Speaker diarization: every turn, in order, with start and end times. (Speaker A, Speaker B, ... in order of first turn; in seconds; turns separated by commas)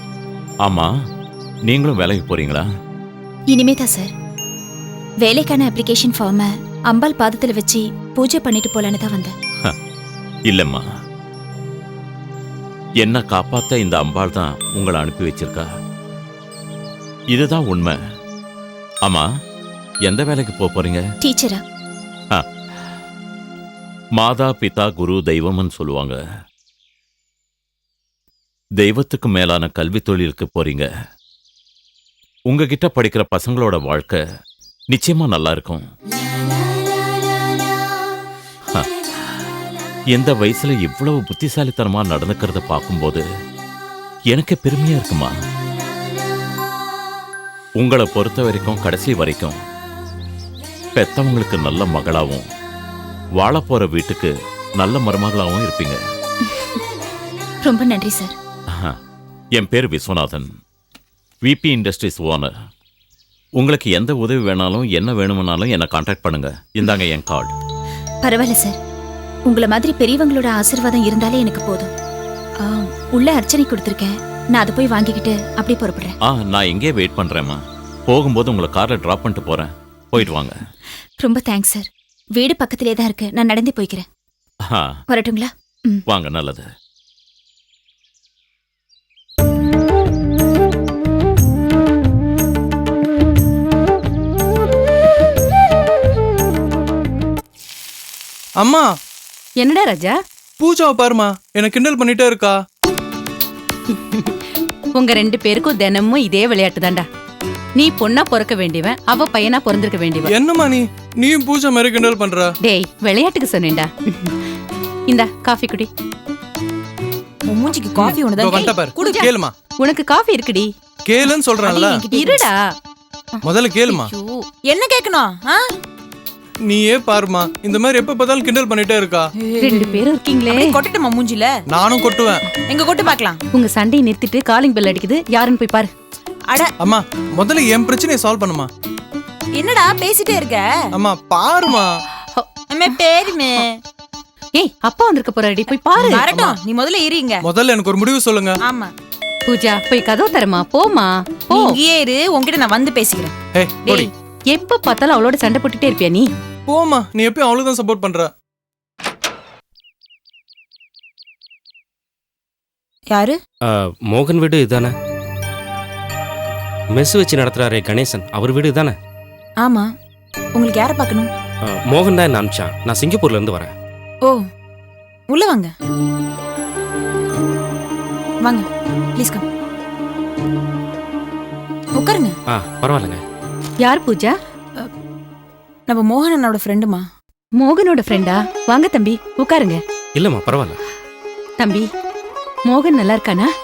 Speaker A: 0.7-0.9, Speaker A: 1.7-2.7, Speaker B: 3.5-4.1, Speaker B: 5.2-9.3, Speaker A: 10.5-10.8, Speaker A: 13.0-15.7, Speaker A: 17.3-18.0, Speaker A: 20.1-21.0, Speaker B: 21.2-21.6, Speaker A: 24.2-26.2, Speaker A: 28.8-30.9, Speaker A: 32.5-34.2, Speaker A: 34.9-35.8, Speaker A: 38.7-39.4, Speaker A: 40.1-43.2, Speaker A: 44.3-45.3, Speaker A: 47.8-49.6, Speaker A: 51.0-52.4, Speaker A: 53.4-56.0, Speaker B: 57.6-58.4, Speaker A: 59.6-60.5, Speaker A: 61.4-62.5, Speaker A: 63.6-67.5, Speaker B: 68.2-68.8, Speaker B: 69.5-71.9, Speaker B: 72.6-76.2, Speaker A: 76.3-80.5, Speaker B: 81.2-84.0, Speaker A: 84.7-85.0, Speaker B: 85.1-86.0, Speaker A: 86.1-86.7, Speaker C: 98.6-98.9, Speaker D: 99.6-100.2, Speaker C: 100.6-102.6, Speaker D: 103.9-104.3, Speaker D: 105.0-107.0, Speaker D: 107.8-110.3, Speaker C: 110.3-112.5, Speaker D: 112.6-114.3, Speaker D: 115.1-115.9, Speaker E: 117.5-119.2, Speaker C: 118.0-119.5, Speaker D: 119.0-120.7, Speaker C: 121.1-122.1, Speaker E: 121.6-122.5, Speaker D: 122.1-122.6, Speaker D: 123.3-124.4, Speaker C: 123.4-124.1, Speaker E: 124.6-125.6, Speaker C: 126.7-129.3, Speaker E: 129.4-131.5, Speaker D: 129.6-130.8, Speaker C: 131.7-132.4, Speaker E: 132.7-133.4, Speaker D: 133.5-135.9, Speaker C: 136.8-138.7, Speaker E: 139.6-140.8, Speaker C: 140.9-141.9, Speaker D: 142.4-143.0, Speaker E: 142.7-143.8, Speaker D: 144.6-146.4, Speaker E: 146.0-147.4, Speaker C: 146.3-146.6, Speaker C: 147.4-148.6, Speaker E: 148.6-148.9, Speaker D: 149.5-151.8, Speaker E: 151.5-153.3, Speaker C: 153.5-154.1, Speaker D: 153.8-156.3, Speaker C: 156.7-158.3, Speaker E: 163.1-163.4, Speaker F: 163.6-164.9, Speaker F: 166.9-169.0, Speaker E: 169.6-169.9, Speaker E: 170.6-171.3, Speaker F: 171.6-173.7, Speaker E: 175.3-175.7, Speaker E: 178.4-179.5, Speaker E: 181.9-182.4, Speaker F: 182.5-183.2, Speaker D: 183.8-184.3, Speaker E: 185.9-187.1, Speaker D: 187.6-189.8, Speaker F: 190.2-190.8, Speaker D: 191.6-191.9, Speaker D: 192.7-193.5